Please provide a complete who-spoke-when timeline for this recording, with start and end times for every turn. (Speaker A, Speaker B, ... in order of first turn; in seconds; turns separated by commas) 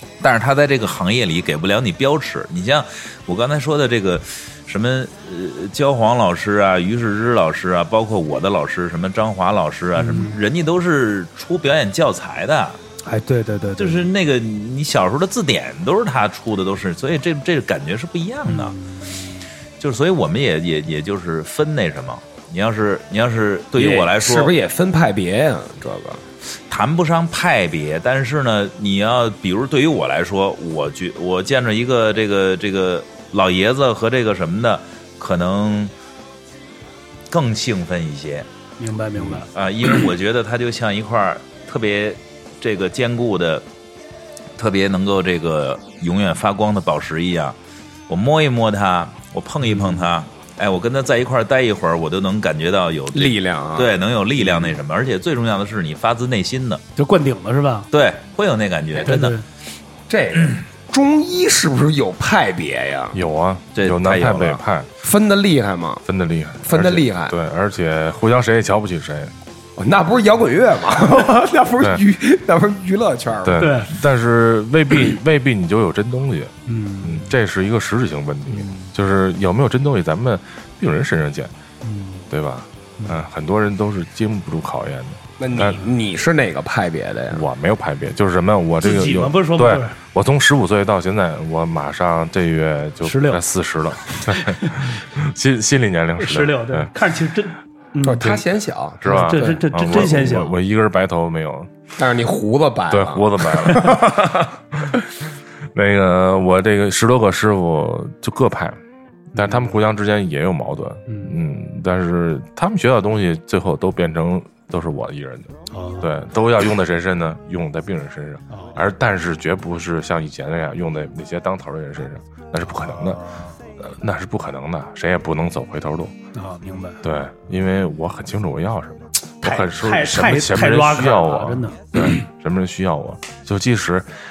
Speaker A: 0.2-12.8, Speaker B: 10.0-10.4, Speaker B: 13.1-14.1, Speaker A: 13.8-18.8, Speaker B: 18.5-19.5, Speaker A: 19.8-24.5, Speaker C: 23.8-26.2, Speaker A: 26.7-35.9, Speaker A: 37.3-38.5, Speaker B: 38.8-39.5, Speaker A: 39.2-43.6, Speaker A: 44.6-47.6, Speaker A: 48.1-56.8, Speaker B: 49.6-50.1, Speaker C: 53.1-54.7, Speaker B: 57.0-57.9, Speaker A: 57.9-59.4, Speaker B: 59.0-59.4, Speaker C: 60.1-63.2, Speaker D: 63.1-64.9, Speaker A: 63.8-64.6, Speaker C: 65.0-66.0, Speaker D: 66.0-69.3, Speaker C: 66.6-67.3, Speaker C: 69.8-73.7, Speaker D: 73.5-81.5, Speaker B: 73.6-73.9, Speaker B: 76.7-77.3, Speaker B: 78.5-78.9, Speaker B: 81.8-82.3, Speaker D: 82.3-85.9, Speaker C: 85.4-87.4, Speaker D: 87.3-96.9, Speaker B: 88.8-90.0, Speaker B: 93.0-93.4, Speaker B: 94.1-94.9, Speaker B: 96.2-98.4, Speaker C: 98.0-99.7, Speaker D: 99.0-101.7, Speaker B: 99.0-100.5, Speaker C: 102.0-104.5, Speaker D: 102.9-105.0, Speaker D: 105.7-108.8, Speaker B: 109.3-109.7, Speaker D: 109.3-123.2, Speaker B: 111.1-111.4, Speaker B: 115.7-116.1, Speaker B: 118.5-118.8, Speaker B: 122.8-123.5, Speaker D: 123.8-126.1, Speaker B: 126.3-127.0, Speaker D: 127.0-134.1, Speaker B: 129.4-132.1